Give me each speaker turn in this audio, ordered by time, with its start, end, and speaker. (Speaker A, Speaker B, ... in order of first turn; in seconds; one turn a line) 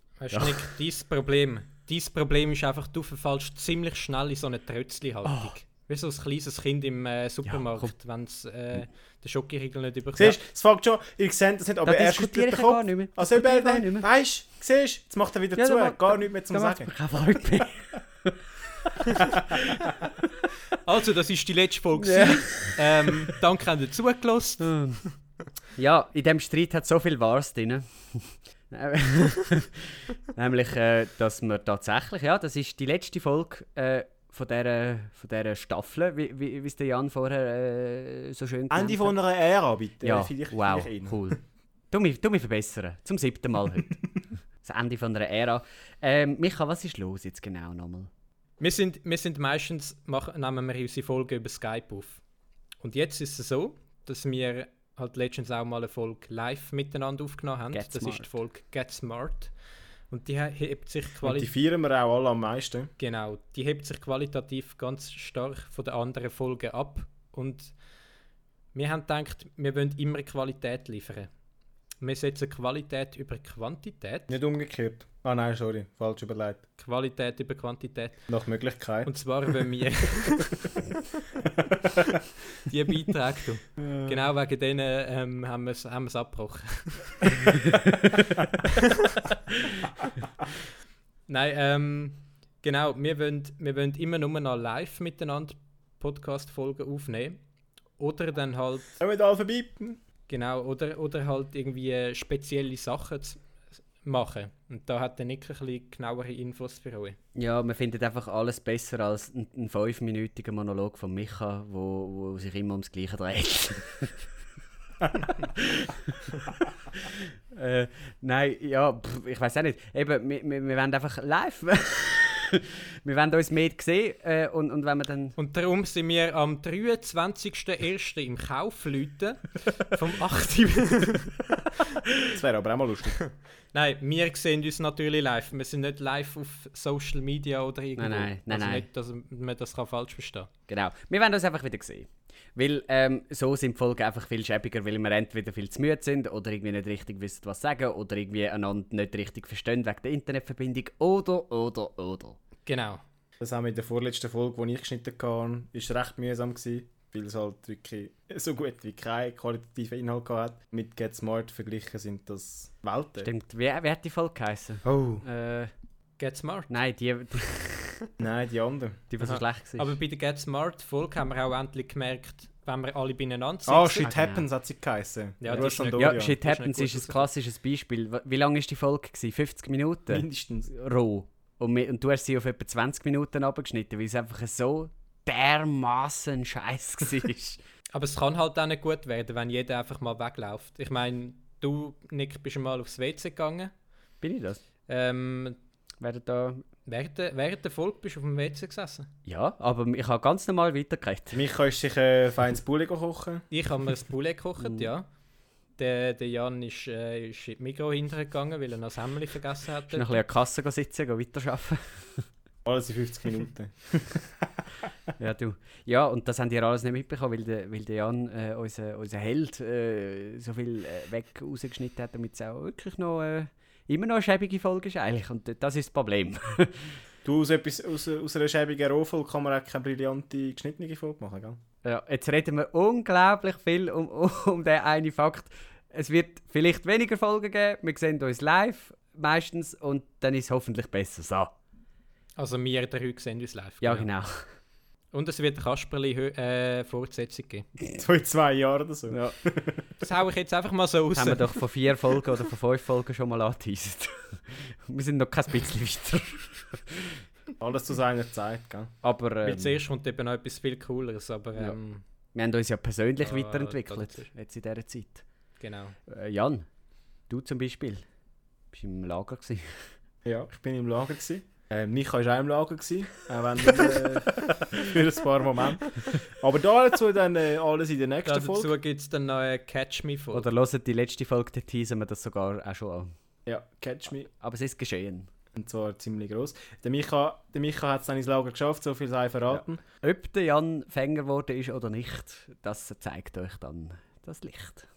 Speaker A: 0.2-10.4
Speaker B: 0.3-0.7
Speaker B: 5.2-5.5
Speaker B: 7.5-7.9
Speaker C: 10.2-16.9
Speaker B: 11.8-14.1
Speaker B: 15.6-18.9
Speaker C: 19.2-19.6
Speaker B: 19.5-19.9
Speaker A: 20.8-25.1
Speaker B: 22.0-23.1
Speaker B: 24.6-25.0
Speaker B: 25.8-39.1
Speaker C: 38.7-41.4
Speaker B: 40.0-44.0
Speaker B: 44.6-48.1
Speaker A: 48.6-52.2
Speaker A: 52.8-59.5
Speaker B: 57.7-58.3
Speaker A: 60.1-61.5
Speaker C: 61.2-62.9
Speaker A: 63.0-67.7
Speaker A: 68.7-71.3
Speaker A: 72.0-74.4
Speaker C: 74.3-76.6
Speaker A: 76.8-78.2
Speaker C: 78.3-79.1
Speaker A: 79.0-80.7
Speaker C: 81.6-82.1
Speaker A: 82.6-87.6
Speaker C: 83.8-84.2
Speaker A: 88.7-89.8
Speaker A: 91.3-97.4
Speaker A: 98.0-99.0
Speaker C: 99.0-100.0
Speaker A: 100.3-103.4
Speaker A: 104.0-107.2
Speaker B: 107.3-114.3
Speaker B: 115.5-116.2
Speaker B: 117.1-125.3
Speaker A: 125.3-131.8
Speaker C: 132.2-133.2
Speaker A: 133.2-140.5
Speaker B: 138.0-138.8
Speaker B: 140.7-152.4
Speaker A: 152.6-153.0
Speaker C: 153.4-163.3
Speaker B: 163.2-165.7
Speaker C: 164.8-165.2
Speaker A: 166.2-166.7
Speaker B: 166.7-168.1
Speaker C: 168.2-169.0
Speaker B: 169.1-170.0
Speaker A: 169.2-174.2
Speaker C: 173.7-176.4
Speaker B: 174.0-174.4
Speaker A: 175.4-177.3
Speaker B: 175.5-187.6
Speaker C: 180.1-180.7
Speaker A: 187.9-193.7
Speaker B: 194.2-194.6
Speaker A: 194.9-195.6
Speaker B: 196.0-196.6
Speaker A: 196.9-199.1
Speaker B: 199.2-201.4
Speaker C: 201.3-203.5
Speaker A: 203.5-205.1
Speaker B: 204.6-204.9
Speaker A: 205.8-210.2
Speaker B: 209.9-212.3
Speaker C: 212.6-214.4
Speaker B: 215.2-227.0
Speaker C: 227.2-231.6
Speaker B: 231.8-241.5
Speaker A: 242.4-244.1
Speaker B: 243.8-244.5
Speaker A: 245.1-247.7
Speaker C: 247.9-249.8
Speaker B: 249.1-249.4
Speaker A: 250.0-251.6
Speaker B: 251.1-257.2
Speaker C: 257.6-258.9
Speaker B: 259.0-259.8
Speaker A: 259.4-262.0
Speaker B: 262.3-265.2
Speaker A: 263.2-264.3
Speaker A: 265.6-266.0
Speaker B: 266.1-266.6
Speaker B: 267.3-268.0
Speaker B: 268.7-269.9
Speaker C: 270.2-278.7
Speaker A: 278.2-280.5
Speaker B: 280.3-283.1
Speaker C: 283.4-284.3
Speaker B: 284.3-285.3
Speaker C: 285.5-289.8
Speaker B: 289.5-294.9